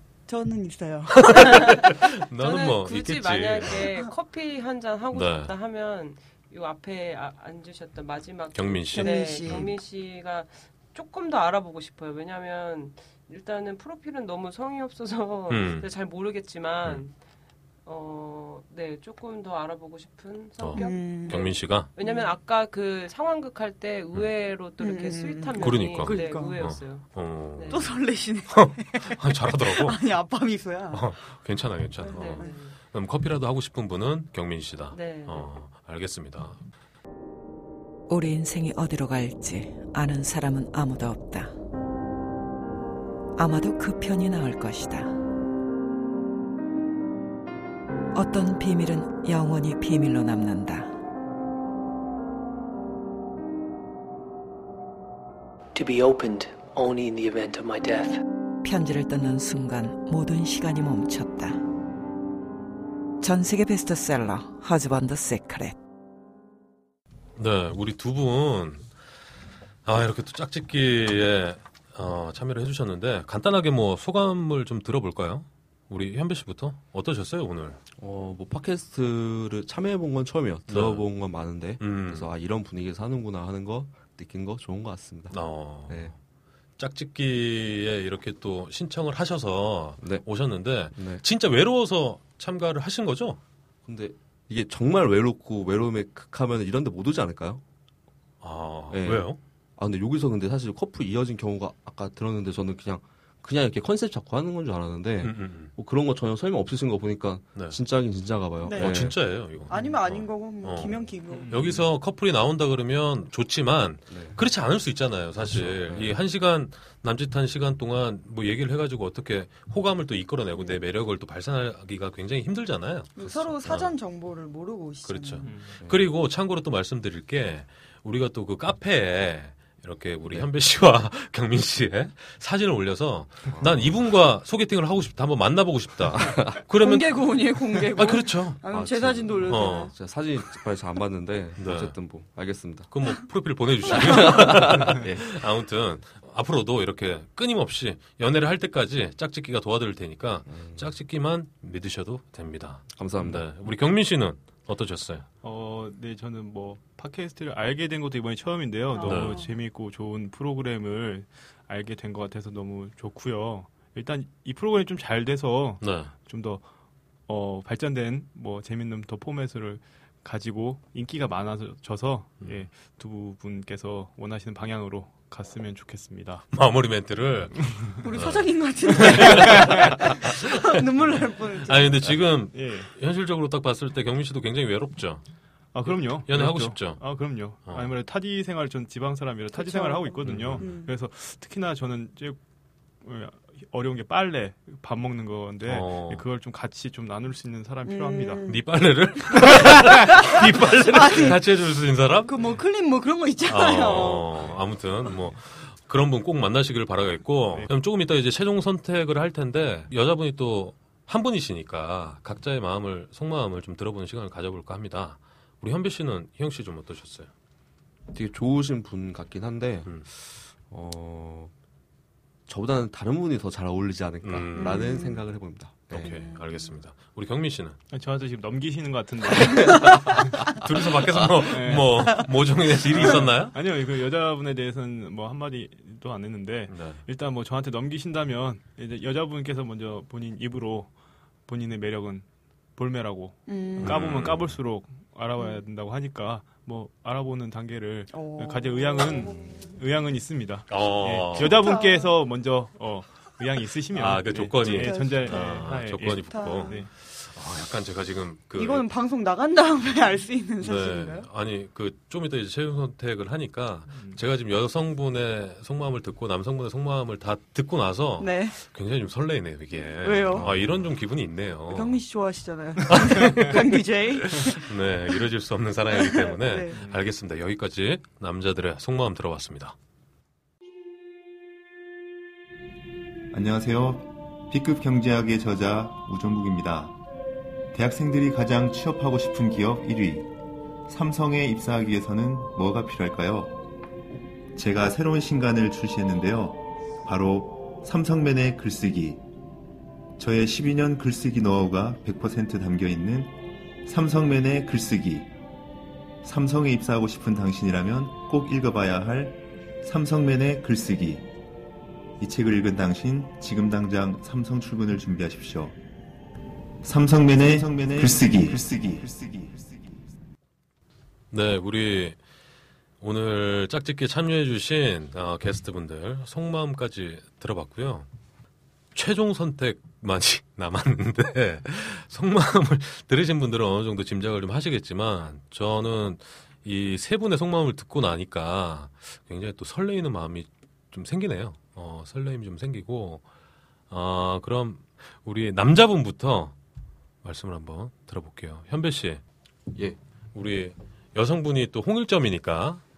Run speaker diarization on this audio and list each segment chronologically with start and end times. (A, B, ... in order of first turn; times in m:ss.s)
0:00.3-0:01.8 A
0:01.2-0:03.8 B
0:01.5-0:17.1 C
0:05.1-0:05.5 B
0:08.5-0:09.7 B
0:08.9-0:09.7 A
0:15.5-0:15.9 B
0:17.8-0:27.8 C
0:20.6-0:21.9 B
0:20.7-0:21.4 A
0:22.0-0:22.3 A
0:24.8-0:26.6 A
0:25.6-0:28.0 B
0:27.7-0:31.1 A
0:28.5-0:30.0 B
0:30.9-0:36.6 B
0:32.0-0:32.6 A
0:32.1-0:32.8 C
0:34.9-0:35.5 C
0:38.1-0:41.5 D
0:43.4-0:45.1 D
0:48.1-0:50.9 D
0:55.7-0:58.2 E
0:58.6-1:01.6 D
1:03.2-1:05.8 D
1:07.4-1:08.9 B
1:09.8-1:17.8 B
1:18.0-1:26.1 F
1:20.7-1:21.1 B
1:21.8-1:22.3 B
1:25.3-1:26.2 B
1:26.8-1:33.4 B
1:30.0-1:30.2 F
1:30.8-1:31.2 F
1:33.8-1:37.6 F
1:38.4-1:39.4 B
1:38.9-1:49.3 F
1:45.2-1:45.7 B
1:48.6-1:51.8 A
1:48.7-2:03.9 B
1:51.5-1:51.8 G
1:54.1-1:54.4 F
1:55.4-1:56.2 F
2:03.2-2:05.5 A
2:03.2-2:03.5 F
2:05.0-2:18.6 B
2:05.4-2:05.7 G
2:05.8-2:06.1 F
2:13.5-2:14.0 F
2:16.2-2:16.6 F
2:16.7-2:19.9 A
2:18.7-2:22.9 F
2:19.5-2:19.9 B
2:21.6-2:21.9 B
2:22.9-2:35.2 B
2:23.8-2:25.2 F
2:30.5-2:30.8 F
2:33.0-2:33.4 F
2:35.4-2:46.6 G
2:38.9-2:39.5 A
2:39.0-2:39.4 B
2:45.8-2:46.1 B
2:47.3-2:56.5 G
2:56.5-3:00.3 B
2:58.0-3:02.1 A
2:59.3-2:59.8 G
3:01.6-3:05.2 B
3:02.5-3:02.9 G
3:05.7-3:12.4 G
3:05.8-3:07.9 B
3:09.5-3:10.9 A
3:10.2-3:10.7 B
3:13.0-3:18.5 G
3:15.6-3:16.2 B
3:17.8-3:18.6 A
3:18.4-3:22.3 B
3:19.4-3:21.6 A
3:22.2-3:24.3 A
3:23.4-3:37.3 B
3:38.1-3:41.5 F
3:42.5-3:46.2 F
3:44.2-3:44.8 B
3:44.6-3:45.2 A
3:45.9-3:47.8 B
3:46.0-3:46.7 A
3:47.9-3:49.9 G
3:49.5-3:50.2 F
3:50.5-3:53.5 B
3:51.4-3:52.3 G
3:52.9-4:00.9 G
3:56.7-3:57.0 B
4:01.4-4:16.9 G
4:03.5-4:04.1 A
4:03.8-4:04.6 B
4:08.1-4:09.7 A
4:10.7-4:11.6 B
4:11.4-4:12.1 A
4:13.9-4:18.9 B
4:14.6-4:16.9 A
4:18.5-4:21.3 A
4:20.6-4:32.0 B
4:23.9-4:24.2 G
4:28.2-4:28.6 A
4:30.0-4:30.5 A
4:31.7-4:35.2 A
4:32.9-4:39.7 B
4:35.9-4:36.9 A
4:43.3-4:47.0 H
4:47.7-4:50.3 H
4:50.9-4:53.6 H
4:54.5-4:59.2 H
5:00.2-5:05.3 H
5:06.2-5:11.3 H
5:12.2-5:15.8 H
5:16.8-5:19.9 H
5:21.3-5:22.2 B
5:23.0-5:28.1 B
5:28.9-5:43.2 B
5:43.9-5:46.5 B
5:47.2-5:49.2 B
5:50.3-5:52.8 B